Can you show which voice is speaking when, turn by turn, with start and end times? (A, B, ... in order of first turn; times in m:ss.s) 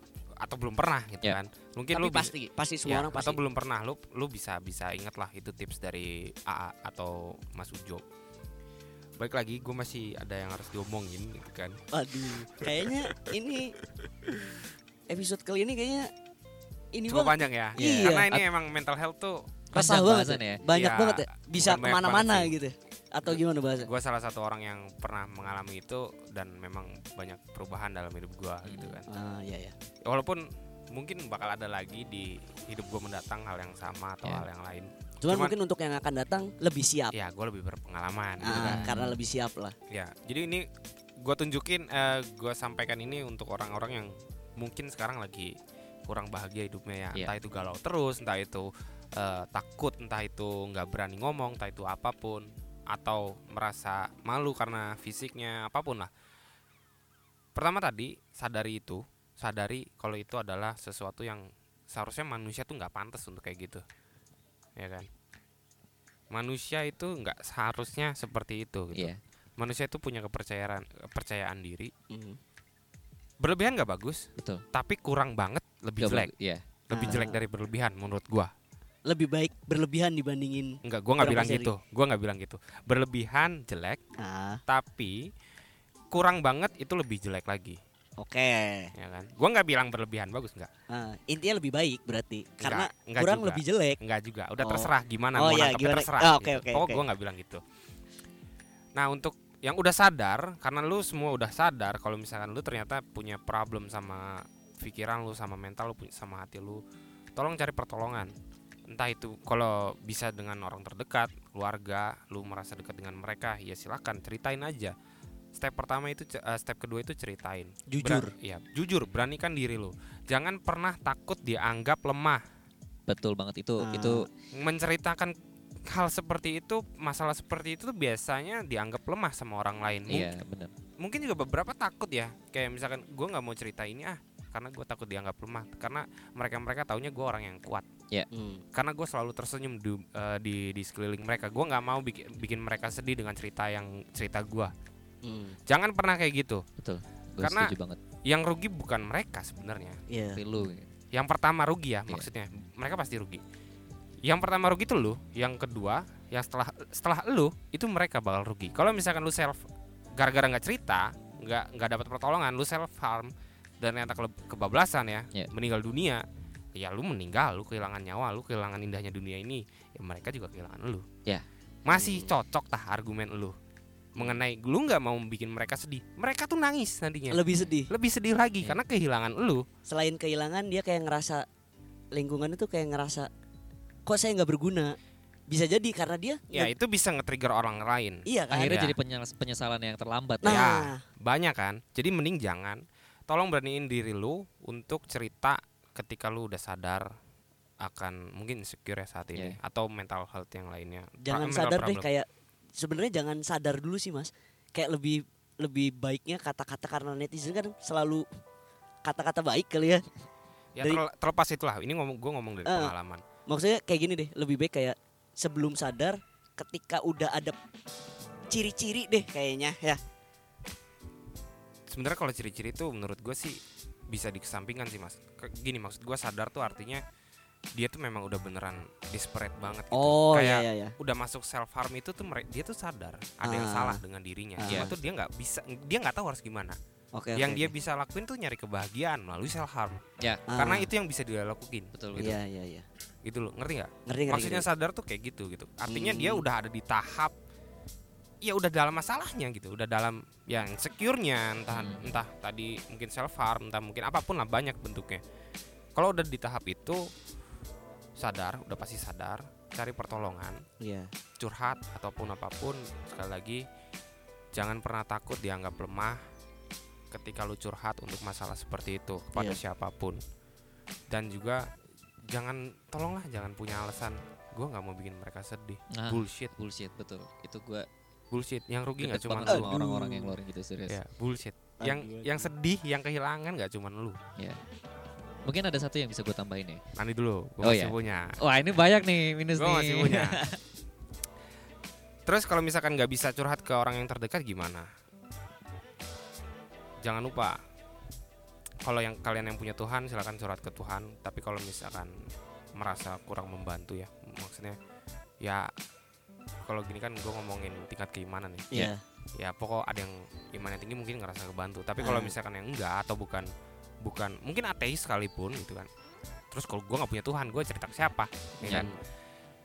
0:00.4-0:02.3 A
0:01.9-0:03.4 B
0:02.8-0:08.0 A
0:09.2-0:11.8 A
0:11.9-0:13.8 B
0:12.6-0:12.9 A
0:14.3-0:14.6 A
0:15.1-0:16.1 B
0:16.9-0:18.3 B
0:17.1-0:19.6 A
0:17.8-0:18.5 C
0:19.7-0:23.9 B
0:19.7-0:20.6 C
0:20.7-0:22.5 A
0:23.8-0:29.1 A
0:28.6-0:29.0 C
0:29.1-0:29.8 B
0:30.0-0:35.5 A
0:35.2-0:37.1 B
0:37.1-0:38.9 A
0:38.4-0:39.8 B
0:38.5-0:39.2 C
0:39.9-0:40.7 A
0:41.2-0:45.5 A
0:46.1-0:56.1 A
0:57.6-1:03.8 A
1:04.8-1:05.1 A
1:06.3-1:11.9 A
1:09.0-1:09.2 C
1:12.1-1:12.4 B
1:13.4-1:16.3 A
1:14.4-1:14.6 C
1:16.0-1:16.6 C
1:16.9-1:17.4 B
1:16.9-1:18.5 A
1:19.1-1:21.7 B
1:20.8-1:24.0 A
1:24.2-1:24.6 B
1:24.7-1:25.2 A
1:26.1-1:27.8 A
1:28.2-1:28.9 B
1:29.0-1:30.7 A
1:30.9-1:34.0 B
1:32.6-1:37.6 A
1:34.6-1:37.0 B
1:39.0-1:46.8 A
1:47.4-1:48.3 A
1:48.9-1:55.0 A
1:55.5-2:02.4 A
1:57.9-1:58.3 B
2:03.1-2:04.3 C
2:03.8-2:04.3 B
2:04.5-2:05.4 A
2:05.9-2:10.3 A
2:10.1-2:10.7 C
2:11.0-2:17.9 A
2:18.3-2:18.6 B
2:18.7-2:24.7 A
2:25.2-2:25.6 B
2:25.7-2:26.6 A
2:26.8-2:28.0 C
2:27.4-2:27.7 A
2:28.3-2:30.0 A
2:30.1-2:30.4 B
2:30.4-2:30.9 C
2:31.1-2:33.4 A
2:34.2-2:39.6 A
2:40.2-2:46.2 A
2:46.8-2:51.1 A
2:51.9-2:53.6 A
2:51.9-2:52.3 B
2:54.2-2:59.7 A
2:57.3-2:57.9 B
2:59.9-3:01.4 B
3:02.1-3:03.3 B
3:04.1-3:05.0 B
3:05.5-3:06.7 B
3:06.5-3:08.9 A
3:08.2-3:08.9 B
3:08.5-3:10.7 C
3:10.4-3:11.0 B
3:10.5-3:17.1 A
3:17.8-3:22.1 A
3:21.2-3:28.3 B
3:29.0-3:30.0 B
3:30.8-3:33.2 A
3:32.7-3:32.9 B
3:33.5-3:37.6 B
3:38.5-3:40.0 B
3:41.9-3:47.0 A
3:47.8-3:56.8 A
3:49.9-3:50.9 B
3:53.4-3:54.0 B
3:54.6-3:55.0 B
3:54.7-3:55.0 C
3:57.1-3:57.7 B
3:57.4-4:00.0 A
4:00.2-4:00.4 C
4:00.5-4:00.9 B
4:00.6-4:01.9 A
4:01.9-4:02.4 C
4:02.2-4:02.9 B
4:03.2-4:07.3 A
4:04.1-4:04.7 B
4:05.9-4:06.4 B
4:08.4-4:15.2 A
4:11.7-4:12.2 C
4:16.0-4:17.1 A
4:18.2-4:20.6 A
4:20.8-4:21.1 B
4:21.4-4:23.6 A
4:24.5-4:26.2 A
4:27.1-4:30.2 A
4:31.1-4:31.7 A
4:32.3-4:36.5 A
4:35.9-4:37.9 C
4:38.3-4:39.9 A
4:39.0-4:41.0 C
4:39.5-4:40.3 B
4:40.9-4:44.2 A
4:41.8-4:42.3 B
4:45.4-4:46.8 C
4:47.0-4:48.4 A
4:47.6-4:50.6 C
4:49.5-4:50.4 A
4:52.3-4:54.9 A
4:57.0-4:57.6 A
4:58.8-5:02.1 A
5:02.8-5:04.8 A
5:05.4-5:05.7 A
5:06.6-5:08.7 A
5:08.7-5:09.0 B
5:09.4-5:13.5 A
5:12.0-5:12.3 B
5:14.0-5:15.9 A
5:16.5-5:18.9 A
5:18.6-5:19.0 B